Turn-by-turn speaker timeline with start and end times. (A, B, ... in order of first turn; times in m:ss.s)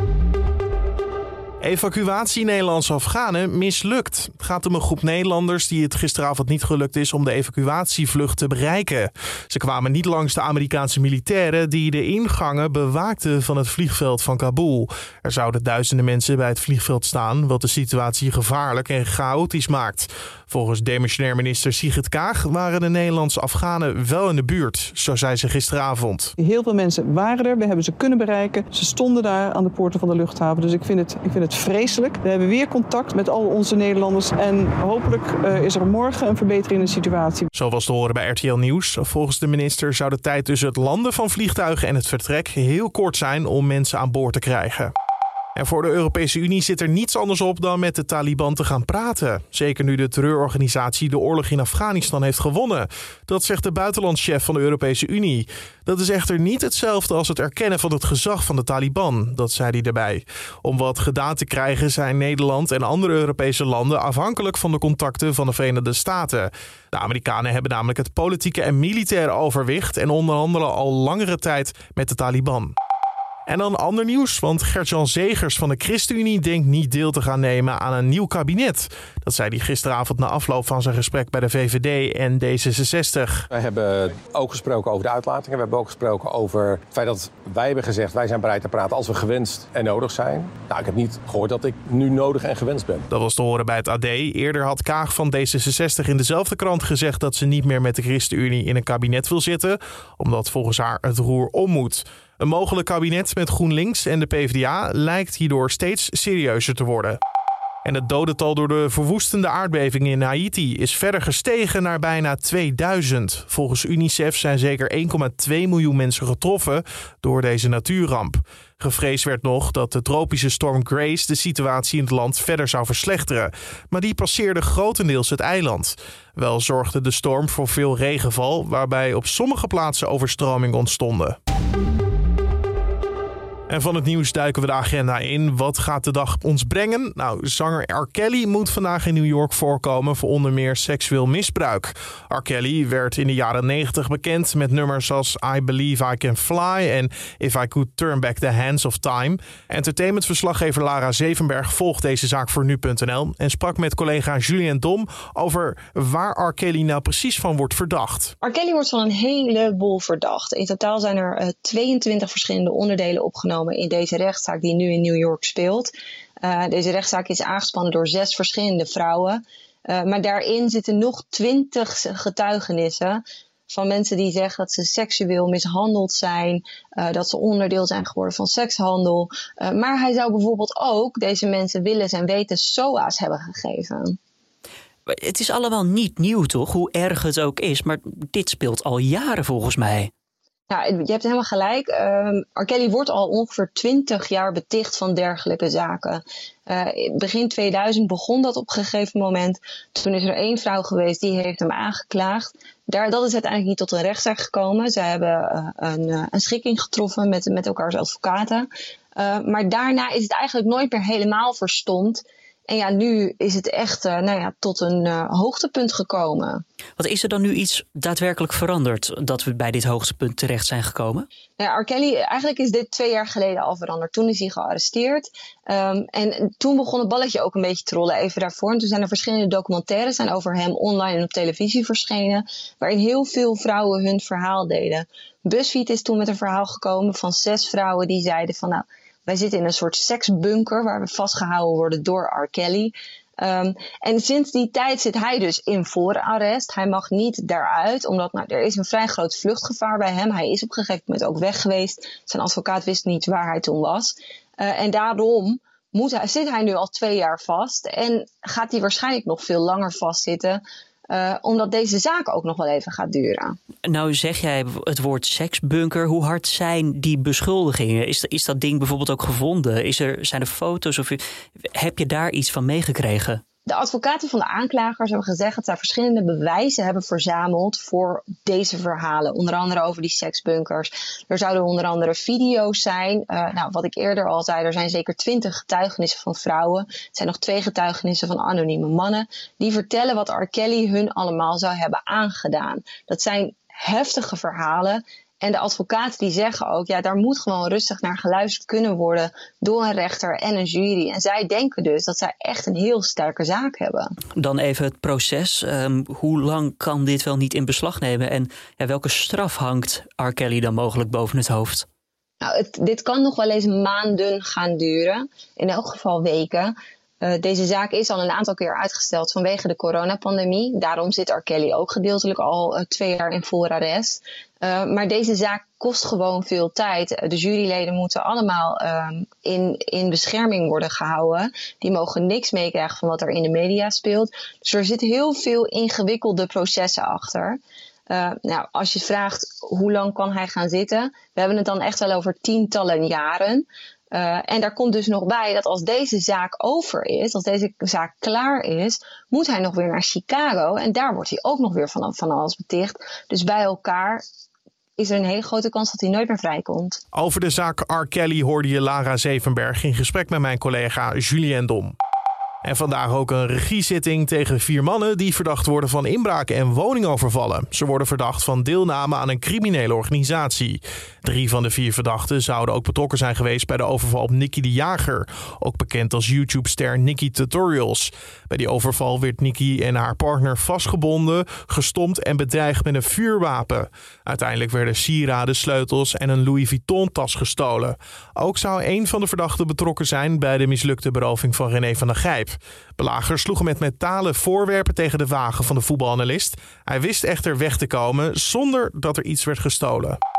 0:01.6-0:26.3 A
0:26.4-0:37.5 B
0:37.5-0:44.9 A
0:45.6-1:12.7 A
1:13.5-1:23.4 A
1:23.5-1:33.1 C
1:33.1-1:47.2 A
1:47.8-2:11.4 A
2:13.7-2:38.3 A
2:38.4-3:04.2 D
3:05.1-3:10.1 E
3:10.7-3:36.6 D
3:37.0-3:41.3 E
3:41.6-4:23.6 D
4:23.9-4:31.2 E
4:31.7-4:33.4 E
4:33.7-5:04.1 D
5:04.4-5:11.8 E
5:12.4-5:54.2 D
5:55.0-5:57.0 D
5:57.1-6:02.0 A
6:02.6-6:40.2 A